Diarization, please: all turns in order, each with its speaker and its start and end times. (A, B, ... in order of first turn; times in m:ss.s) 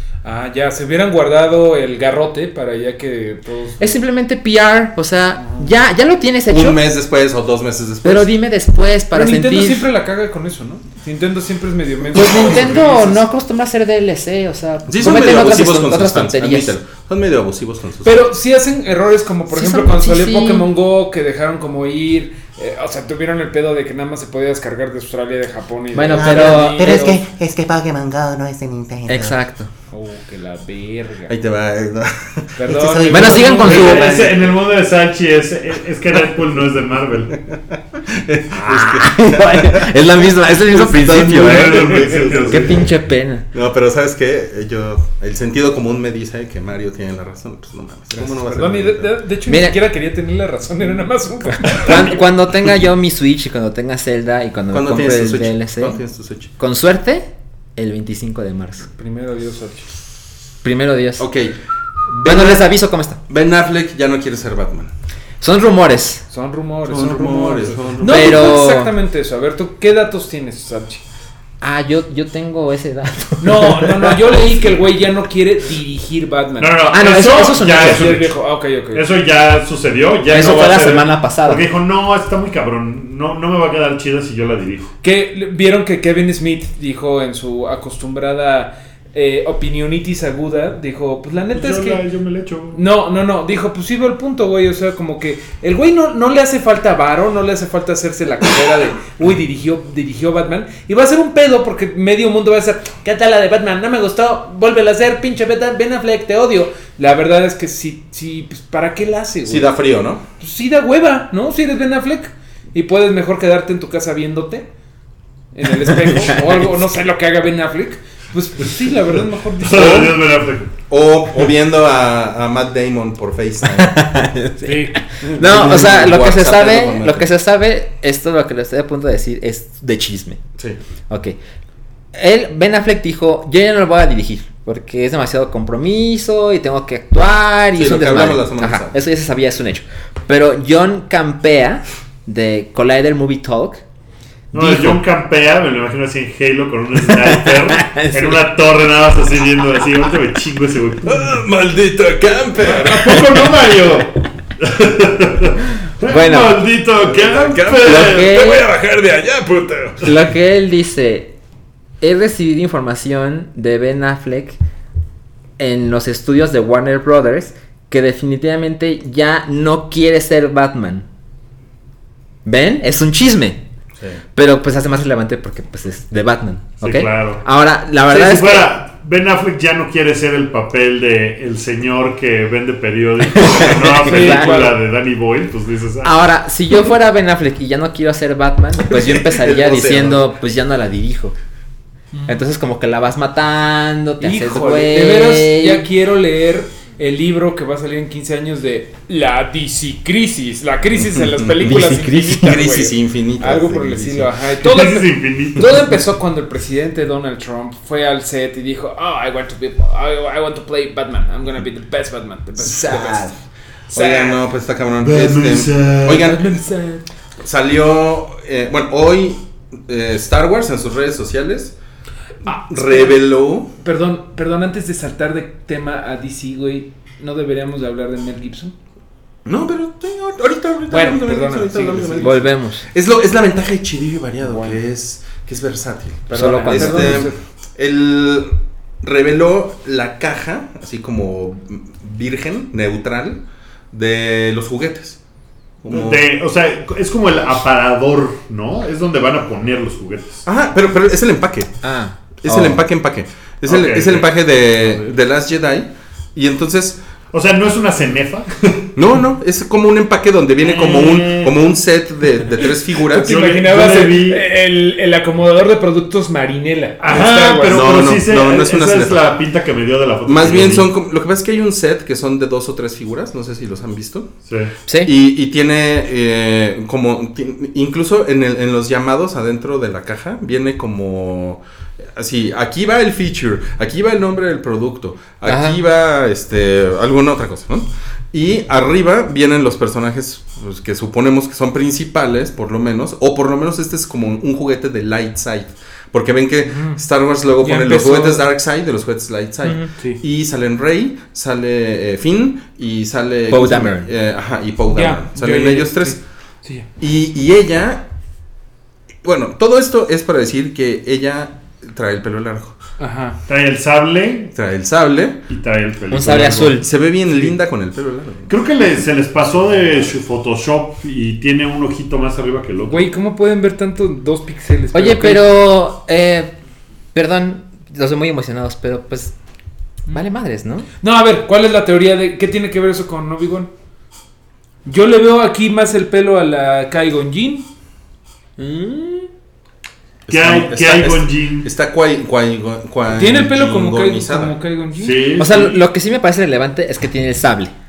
0:00.2-0:04.0 A
0:03.8-0:06.8 B
0:05.4-0:05.7 A
0:06.5-0:08.3 C
0:08.0-0:09.9 B
0:09.1-0:13.2 A
0:12.1-0:16.7 B
0:14.9-0:18.2 C
0:18.0-0:27.2 A
0:19.5-0:20.7 B
0:25.9-0:27.2 B
0:26.1-0:29.3 D
0:29.1-0:29.7 B
0:29.9-0:31.3 A
0:31.3-0:34.4 C
0:32.6-0:34.0 A
0:32.7-0:34.2 D
0:33.1-0:34.2 B
0:33.4-0:37.4 E
0:38.0-0:39.9 C
0:38.6-0:43.4 B
0:40.5-0:42.8 C
0:41.2-0:42.9 E
0:42.1-0:42.4 A
0:43.5-0:49.2 C
0:48.1-0:52.2 A
0:49.5-0:49.8 B
0:51.7-0:56.0 B
0:54.7-0:56.5 C
0:56.6-0:58.9 B
0:58.9-0:59.9 A
1:00.6-1:01.2 B
1:01.2-1:01.6 C
1:02.1-1:02.6 C
1:02.2-1:03.2 B
1:03.3-1:04.9 C
1:05.4-1:06.2 B
1:06.3-1:11.0 A
1:06.8-1:08.5 C
1:08.0-1:08.9 B
1:11.6-1:14.4 B
1:13.4-1:19.1 A
1:16.6-1:18.4 E
1:16.9-1:18.1 B
1:18.9-1:24.9 E
1:20.3-1:21.6 B
1:25.0-1:32.0 A
1:31.5-1:32.8 E
1:32.7-1:49.7 A
1:49.4-1:50.2 C
1:50.4-1:54.7 A
1:55.5-2:00.1 A
1:59.6-2:00.7 E
1:59.7-2:00.1 C
2:00.9-2:04.0 C
2:03.8-2:10.4 B
2:04.6-2:05.3 A
2:05.3-2:07.3 C
2:11.1-2:11.4 B
2:12.1-2:23.8 B
2:17.8-2:18.9 C
2:24.5-2:31.4 E
2:24.5-2:25.0 B
2:27.3-2:28.4 B
2:31.1-2:33.6 C
2:32.6-2:38.4 E
2:36.0-2:36.6 B
2:37.0-2:40.1 C
2:37.8-2:38.6 B
2:40.0-2:41.3 B
2:42.0-2:44.6 B
2:45.6-2:51.0 B
2:52.4-2:53.6 B
2:54.3-2:58.7 B
2:56.8-2:57.4 E
2:58.0-3:06.2 E
3:03.4-3:04.7 B
3:04.0-3:04.8 A
3:06.0-3:11.3 B
3:08.9-3:10.3 C
3:12.3-3:15.8 B
3:14.2-3:33.3 A
3:20.9-3:24.3 C
3:21.6-3:22.6 B
3:24.6-3:25.9 E
3:32.7-3:33.1 C
3:32.8-3:33.3 B
3:33.9-3:34.4 A
3:33.9-3:36.6 C
3:35.0-3:36.3 E
3:36.2-3:37.0 A
3:37.4-3:41.7 C
3:42.4-3:43.2 A
3:42.5-3:43.7 C
3:43.8-3:48.7 A
3:49.4-4:05.2 C
3:50.9-3:52.4 A
3:52.2-3:52.8 B
3:54.4-3:54.8 A
3:56.3-3:57.3 B
3:56.3-3:57.4 A
4:05.8-4:06.3 C
4:05.9-4:10.4 E
4:10.4-4:11.7 C
4:11.8-4:12.8 B
4:12.4-4:17.0 C
4:13.6-4:14.3 E
4:17.3-4:18.9 E
4:19.0-4:23.4 C
4:20.6-4:21.5 E
4:23.1-4:27.9 A
4:23.2-4:24.4 E
4:27.0-4:30.9 E
4:27.7-4:29.2 C
4:30.2-4:34.3 C
4:34.4-4:34.7 E
4:35.0-4:41.6 C
4:42.1-5:06.2 C
4:45.4-4:45.8 B
4:56.7-4:57.0 A
4:57.6-4:58.4 A
5:03.5-5:04.1 B
5:04.9-5:06.9 A
5:07.0-5:08.1 C
5:09.2-5:12.8 C
5:13.0-5:13.4 A
5:13.5-5:14.5 E
5:14.5-5:15.4 C
5:15.5-5:16.8 E
5:16.1-5:16.9 B
5:16.8-5:18.5 C
5:18.5-5:23.1 E
5:22.9-5:25.4 A
5:24.9-5:26.5 B
5:27.1-5:29.3 B
5:30.1-5:30.9 B
5:31.0-5:33.7 A
5:34.8-5:37.7 A
5:38.6-5:39.3 A
5:40.2-5:44.6 C
5:40.3-5:41.7 E
5:43.1-5:45.3 A
5:45.0-5:45.8 E
5:45.4-5:47.7 B